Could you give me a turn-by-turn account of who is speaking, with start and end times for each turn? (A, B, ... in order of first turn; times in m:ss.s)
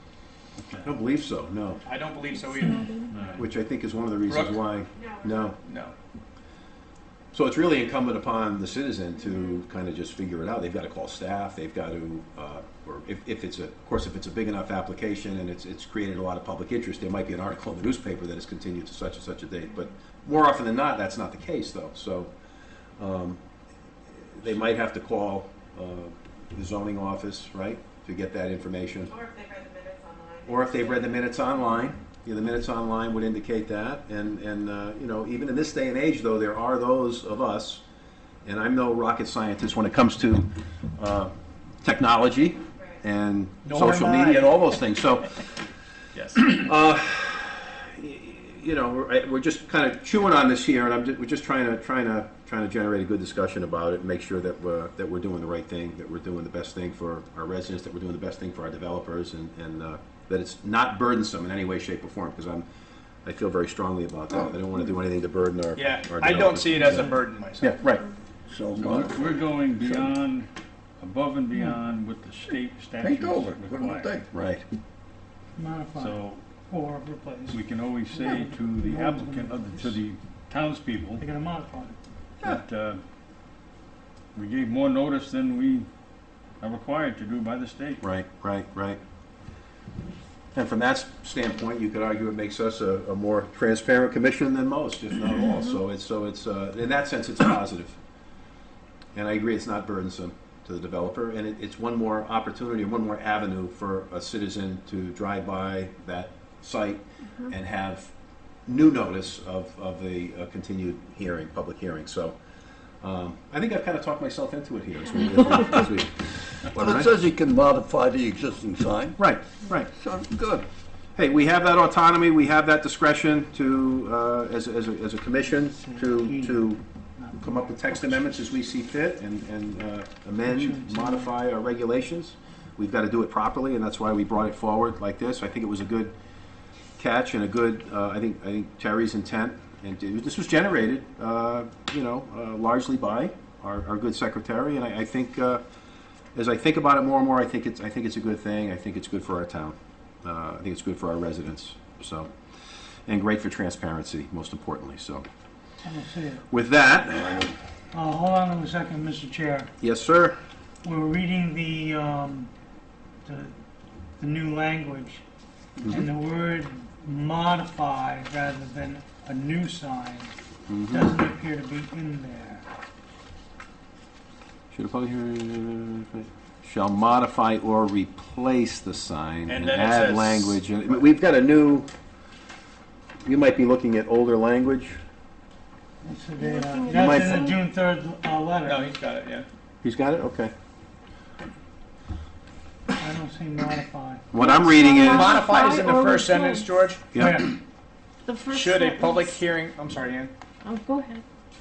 0:00.6-0:00.9 A
0:00.8-0:01.8 B
0:01.8-0:03.0 C
0:02.5-0:03.1 D
0:03.1-0:03.4 A
0:03.4-0:05.6 B
0:04.3-0:04.6 C
0:05.0-0:05.6 E
0:05.6-0:05.9 C
0:07.3-0:22.3 B
0:23.0-0:23.4 B
0:24.3-0:29.1 B
0:29.1-0:31.3 E
0:30.4-0:37.8 B
0:38.4-0:41.3 B
0:41.8-0:45.4 B
0:43.7-0:44.6 C
0:46.1-0:46.6 C
0:46.4-1:02.6 B
1:03.2-1:08.0 B
1:05.8-1:07.8 C
1:06.7-1:07.2 F
1:08.5-1:10.1 G
1:08.8-1:10.5 A
1:11.0-1:14.2 A
1:13.0-1:14.3 G
1:14.3-1:14.6 B
1:15.6-1:17.6 F
1:16.0-1:16.4 A
1:17.5-1:21.2 A
1:18.1-1:19.9 F
1:21.2-1:21.9 F
1:22.4-1:23.0 A
1:24.3-1:25.9 A
1:26.6-1:28.0 A
1:28.0-1:29.0 B
1:30.6-1:38.0 B
1:39.1-1:48.1 B
1:48.7-1:52.3 B
1:53.0-1:57.1 B
1:56.7-1:59.2 G
1:59.2-1:59.9 B
2:00.0-2:00.7 G
2:01.2-2:06.8 B
2:05.8-2:08.4 F
2:07.4-2:16.1 B
2:10.5-2:11.3 F
2:17.0-2:25.6 B
2:26.4-2:32.3 B
2:33.1-2:35.2 B
2:35.8-2:36.4 F
2:36.5-2:37.5 B
2:37.9-2:39.7 F
2:39.8-2:40.4 B
2:40.8-2:42.5 F
2:43.2-2:43.5 F
2:44.2-2:45.2 F
2:45.9-2:50.3 F
2:50.7-2:51.1 B
2:50.9-2:52.6 F
2:54.7-3:01.9 B
2:59.5-3:00.6 C
3:03.2-3:05.0 B
3:06.0-3:08.8 F
3:06.4-3:07.6 D
3:06.9-3:07.5 B
3:08.7-3:09.5 C
3:09.8-3:10.5 B
3:13.0-3:14.2 F
3:14.3-3:15.5 B
3:14.4-3:16.7 D
3:15.0-3:17.0 C
3:17.1-3:17.5 B
3:17.2-3:17.6 F
3:18.3-3:19.4 D
3:18.5-3:20.3 C
3:20.6-3:21.2 D